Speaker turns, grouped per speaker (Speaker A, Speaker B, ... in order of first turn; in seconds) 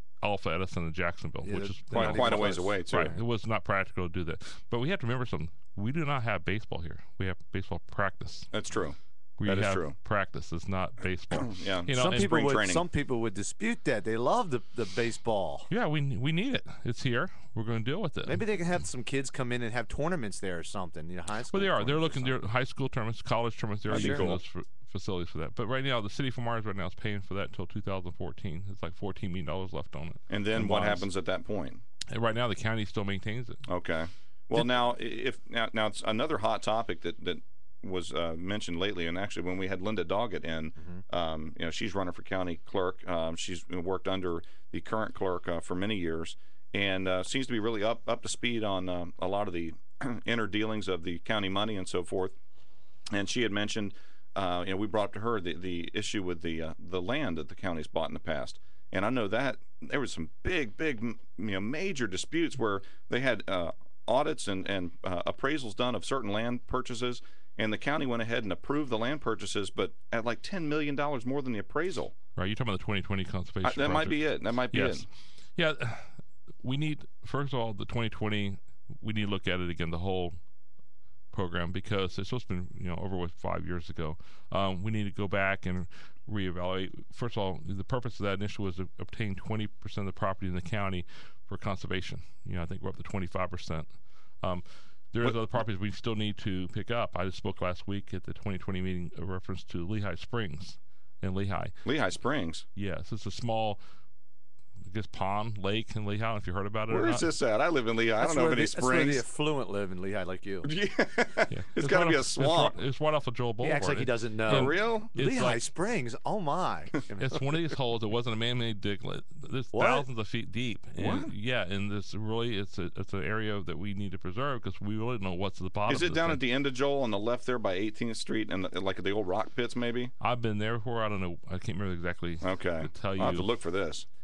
Speaker A: 0.2-8.5, 9.4-12.4, 15.7-18.4, 21.5-31.1, 32.1-33.6, 72.3-76.1, 76.6-80.3, 81.3-93.9, 94.4-101.8, 102.8-103.8, 104.9-107.3, 111.5-115.7, 117.2-126.4, 130.2-133.5
Speaker B: 1.4-3.2, 11.9-15.7, 18.2-22.4, 23.9-24.2, 108.2-110.7, 113.6-117.5, 119.7-120.1
Speaker C: 1.9-3.1, 8.5-9.9, 11.3-12.8, 23.9-24.4, 30.3-31.8, 33.7-52.4, 53.1-72.1, 73.6-75.1, 101.8-102.7, 106.9-109.2, 110.6-112.8, 114.5-115.1, 121.0-121.3, 125.9-130.1, 132.4-134.1